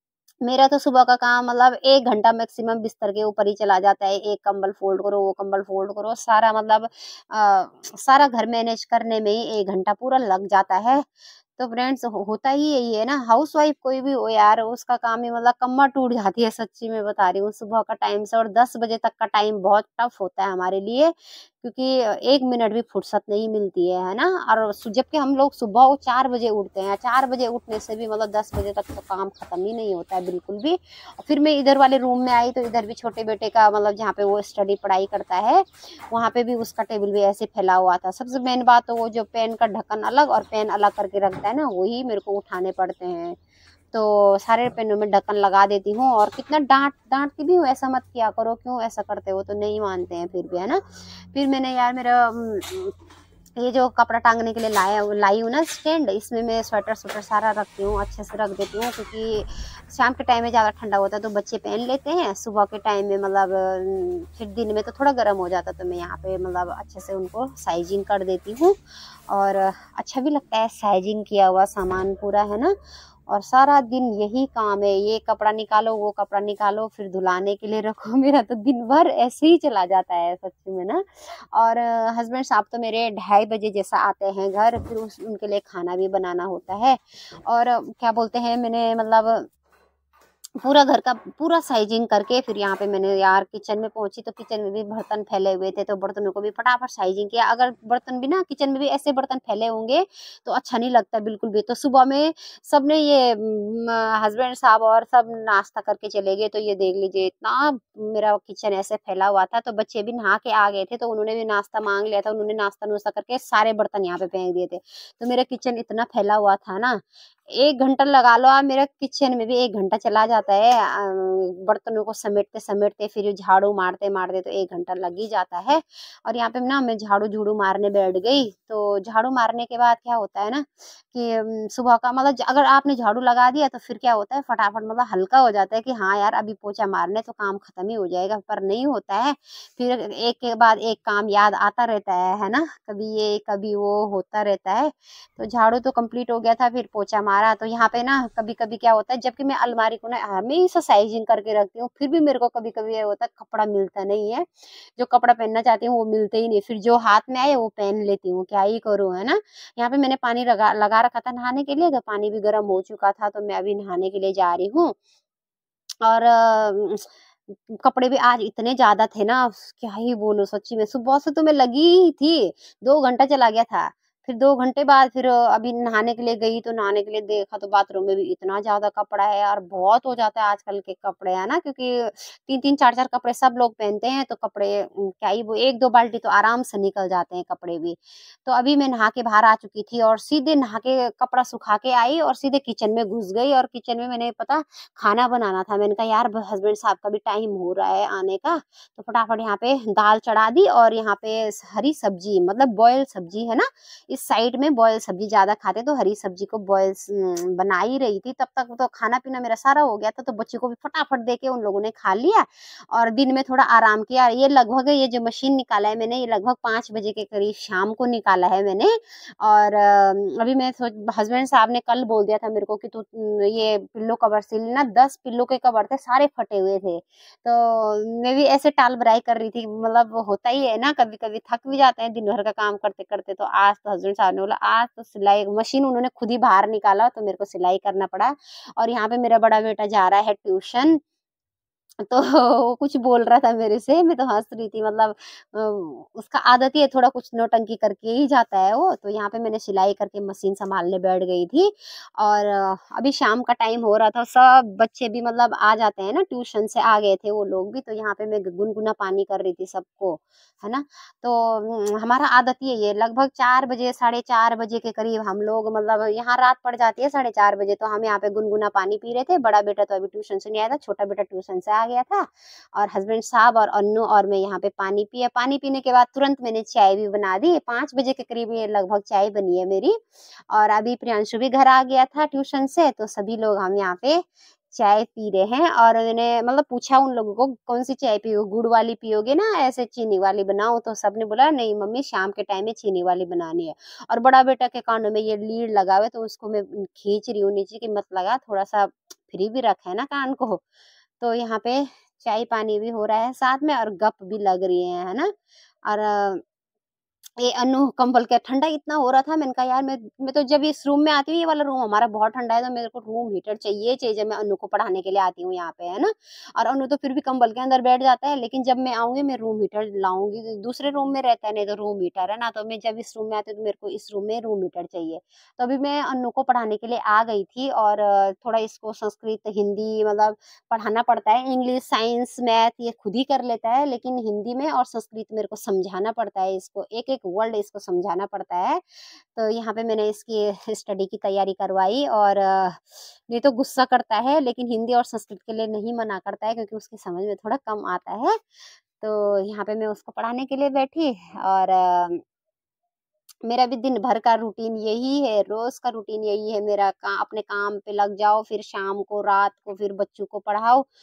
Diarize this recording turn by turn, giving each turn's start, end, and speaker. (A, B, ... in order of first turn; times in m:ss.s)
0:00.4-0:11.0 A
0:11.6-0:43.4 A
0:43.9-0:50.8 A
0:51.3-0:52.9 A
0:53.6-1:08.8 A
1:09.3-1:12.8 A
1:13.3-1:29.4 A
1:30.6-2:44.9 A
2:46.0-4:01.0 A
4:02.0-4:40.0 A
4:40.5-5:00.6 A
5:01.2-5:05.3 A
5:05.9-5:06.4 A
5:07.4-5:48.4 A
5:49.0-5:52.2 A
5:53.4-6:00.9 A